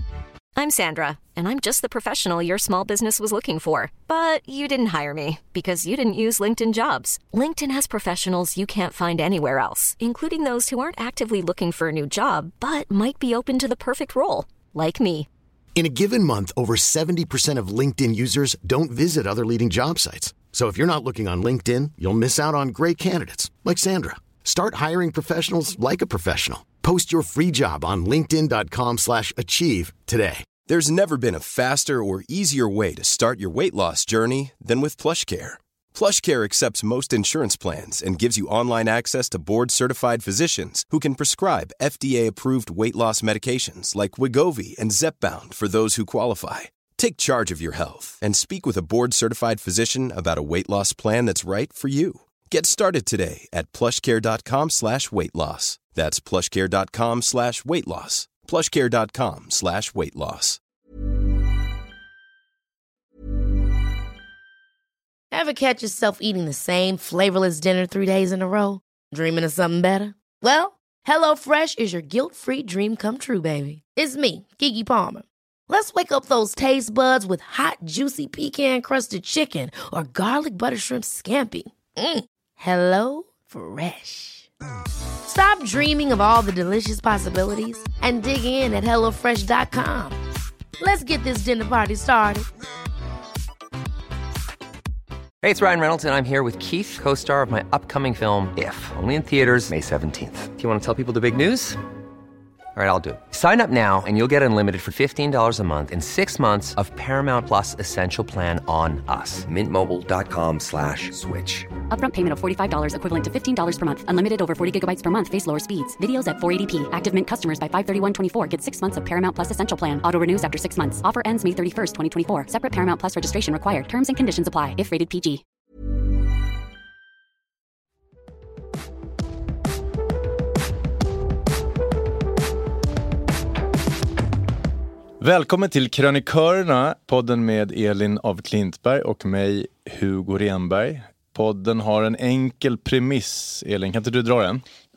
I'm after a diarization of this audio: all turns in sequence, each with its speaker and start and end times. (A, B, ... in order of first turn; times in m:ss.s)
0:00.6-0:15.3 A
0:15.8-0:30.4 B
0:15.8-0:26.5 C
0:27.0-1:00.6 C
1:05.3-1:24.5 D
1:25.2-1:30.2 D
1:30.8-1:32.5 D
1:35.4-1:41.8 E
1:42.7-1:51.8 E
1:51.8-2:05.4 F
2:15.2-2:24.6 G